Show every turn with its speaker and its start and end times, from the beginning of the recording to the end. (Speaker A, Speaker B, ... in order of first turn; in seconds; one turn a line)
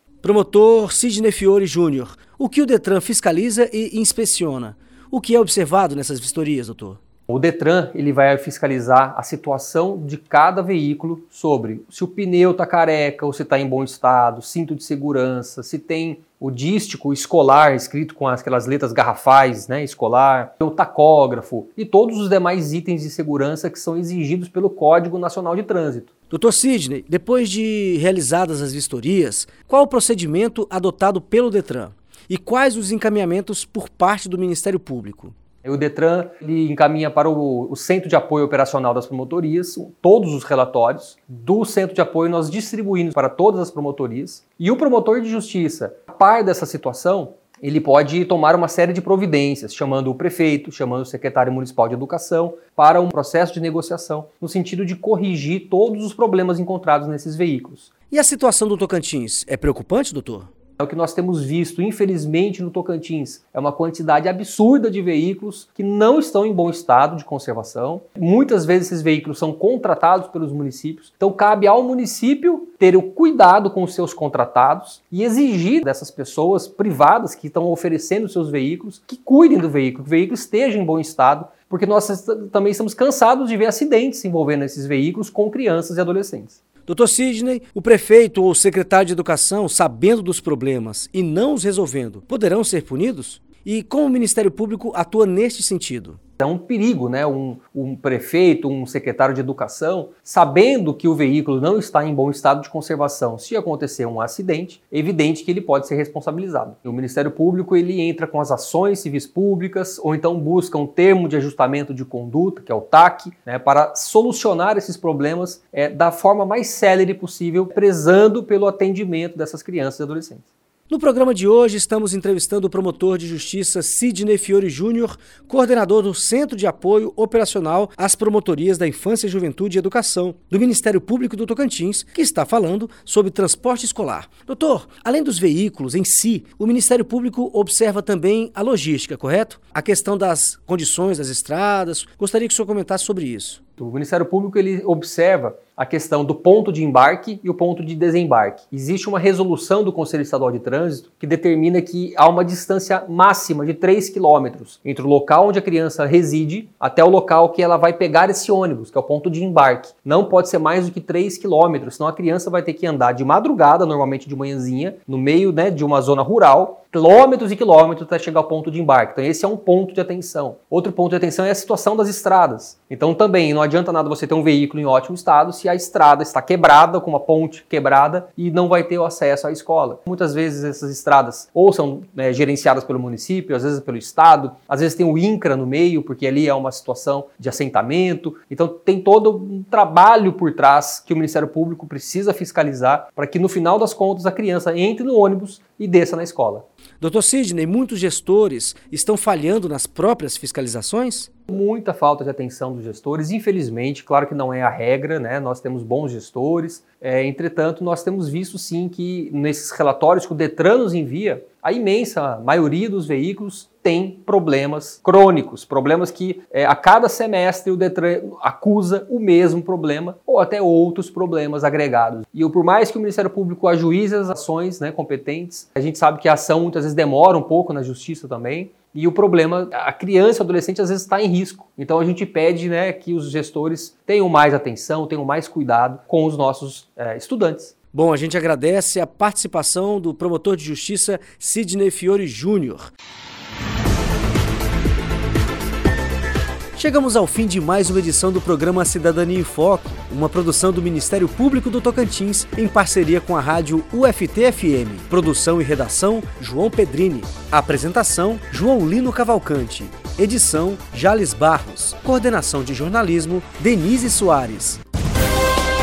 Speaker A: 0.2-7.0
Speaker B: 7.3-26.1
Speaker A: 26.3-35.3
Speaker B: 35.6-57.9
Speaker A: 58.1-60.5
Speaker B: 60.8-86.6
Speaker A: 86.9-96.2
Speaker B: 96.4-120.4
Speaker A: 120.9-143.6
Speaker B: 143.8-196.7
Speaker A: 197.0-201.3
Speaker B: 201.5-237.7
Speaker A: 237.9-242.9
Speaker A: 246.8-264.8